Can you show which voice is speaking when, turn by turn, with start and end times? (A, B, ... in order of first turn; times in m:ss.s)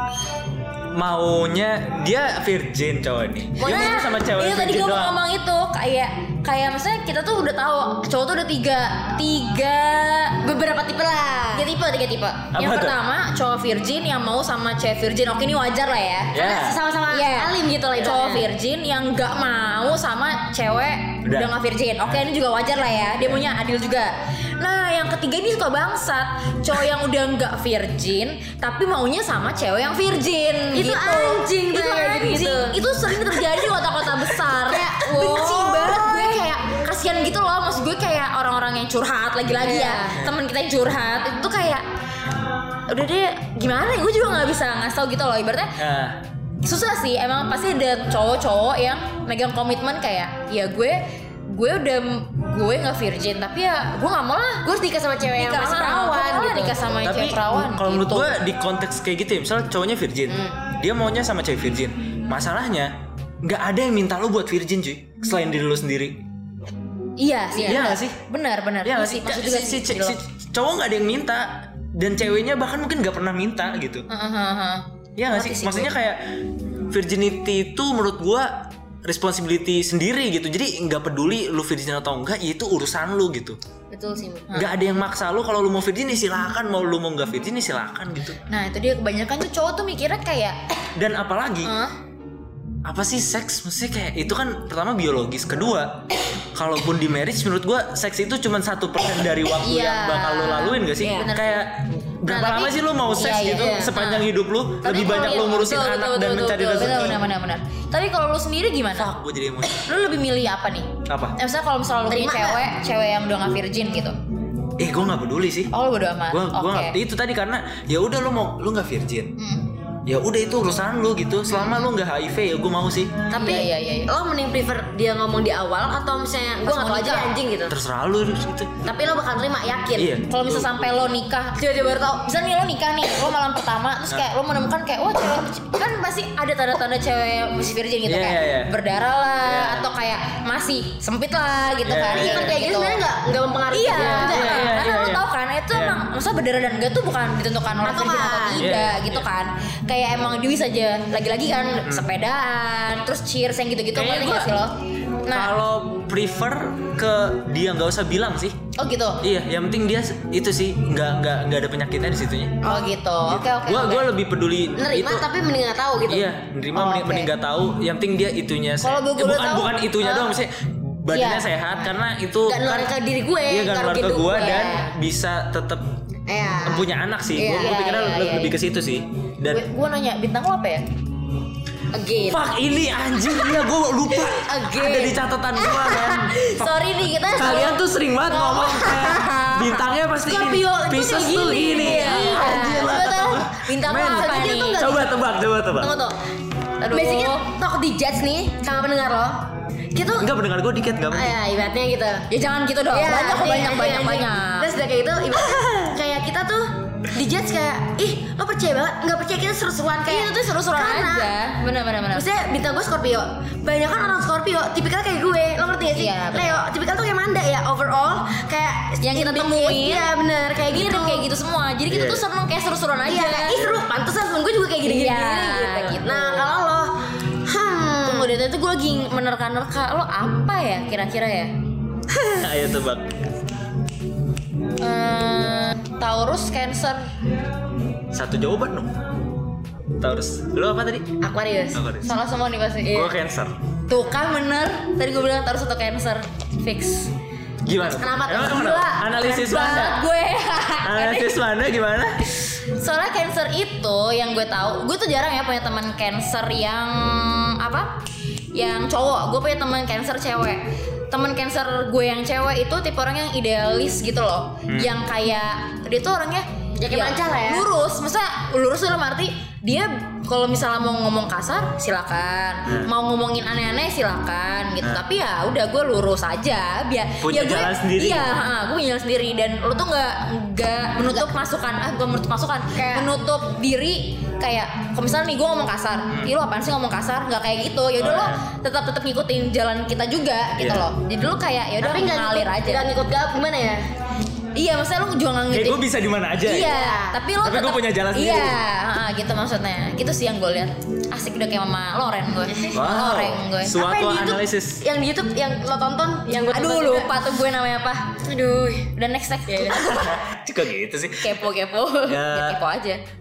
0:00.9-0:05.2 A
0:03.6-0:04.1 B
0:03.6-0:10.4 C
0:10.4-0:11.6 B
0:11.5-0:16.4 C
0:12.5-0:13.0 A
0:16.3-0:16.8 A
0:16.4-0:18.5 B
0:17.1-0:41.8 C
0:21.2-0:21.5 A
0:30.7-0:33.6 B
0:34.7-0:36.6 B
0:39.6-0:40.3 B
0:42.9-0:45.8 C
0:45.8-0:46.2 A
0:46.6-0:54.6 C
0:54.6-0:56.8 B
0:55.4-0:58.4 C
0:57.0-1:06.2 A
1:00.3-1:00.6 B
1:07.2-1:10.2 C
1:07.6-1:07.9 B
1:07.6-1:08.2 A
1:08.8-1:14.0 A
1:14.1-1:15.9 C
1:15.2-1:23.6 A
1:23.9-1:24.5 B
1:24.5-1:28.4 A
1:28.5-1:30.6 C
1:30.9-1:31.7 A
1:31.6-1:31.9 C
1:32.8-1:47.2 A
1:39.6-1:41.7 C
1:41.0-1:41.4 B
1:42.3-1:44.3 C
1:42.3-1:42.7 B
1:43.4-1:43.9 B
1:44.8-1:49.1 C
1:48.9-1:49.9 A
1:49.7-1:54.2 C
1:51.1-1:51.4 A
1:52.0-1:52.6 B
1:54.8-1:55.7 A
1:55.7-1:57.0 C
1:56.3-1:59.4 A
1:59.4-1:59.7 C
2:00.1-2:03.2 A
2:03.3-2:04.1 C
2:03.3-2:07.8 B
2:06.6-2:07.4 C
2:07.7-2:08.8 A
2:08.8-2:10.1 B
2:10.0-2:11.1 A
2:10.3-2:23.0 C
2:11.6-2:12.1 B
2:18.1-2:18.7 A
2:19.4-2:19.9 A
2:21.8-2:22.6 A
2:22.1-2:24.7 B
2:23.7-2:35.5 C
2:23.9-2:26.0 A
2:27.8-2:28.7 B
2:28.6-2:29.2 A
2:33.9-2:34.6 A
2:35.3-2:38.6 A
2:38.8-2:39.2 C
2:39.2-2:42.7 A
2:42.6-2:44.1 C
2:42.6-2:42.9 B
2:43.2-2:45.3 A
2:44.8-2:47.3 B
2:46.1-2:52.9 A
2:48.8-2:50.3 C
2:51.2-2:54.9 B
2:53.4-2:55.9 A
2:56.3-2:57.9 B
2:56.6-2:59.6 A
2:57.5-2:58.6 C
2:59.5-3:00.8 C
3:01.9-3:02.4 B
3:02.3-3:15.9 A
3:04.2-3:05.2 B
3:05.7-3:06.1 B
3:05.7-3:07.8 C
3:08.3-3:09.1 B
3:08.4-3:09.8 C
3:10.2-3:13.4 B
3:11.6-3:14.9 C
3:13.9-3:15.1 B
3:15.8-3:16.1 B
3:16.8-3:17.5 C
3:16.9-3:20.3 B
3:20.2-3:21.4 A
3:21.1-3:22.3 B
3:22.3-3:24.7 C
3:22.9-3:31.3 B
3:25.4-3:25.8 C
3:30.1-3:32.2 C
3:32.1-3:41.3 B
3:35.9-3:36.6 C
3:39.0-3:40.1 C
3:40.6-3:43.6 C
3:41.9-3:42.2 A
3:43.1-3:46.9 B
3:43.5-3:43.8 A
3:44.8-3:46.5 C
3:47.4-3:48.3 B
3:48.0-3:51.5 C
3:52.1-3:53.4 A
3:54.8-3:57.1 C
3:58.1-3:59.0 A
4:00.0-4:01.1 A
4:01.2-4:01.8 B
4:01.7-4:02.1 A
4:02.0-4:03.1 C
4:02.9-4:03.6 A
4:03.9-4:07.1 C
4:07.6-4:10.0 A
4:08.0-4:09.0 B
4:09.1-4:11.4 C
4:10.8-4:12.3 A
4:12.7-4:18.0 C
4:18.6-4:52.9 C
4:24.7-4:24.9 A
4:26.8-4:27.7 B
4:37.2-4:38.3 A
4:42.7-4:43.1 B
4:46.1-4:46.3 A
4:48.0-4:48.4 A
4:50.6-4:50.9 A
4:51.8-4:53.8 B
4:54.6-4:55.9 C
4:55.5-4:56.7 A
4:56.4-5:03.8 C
4:56.6-4:57.2 B
4:57.4-4:58.6 A
5:02.7-5:04.8 A
5:03.7-5:07.2 B
5:06.3-5:08.2 C
5:08.2-5:08.9 B
5:08.9-5:10.2 C
5:09.5-5:09.8 B
5:09.8-5:11.4 A
5:11.2-5:13.0 C
5:12.1-5:12.6 A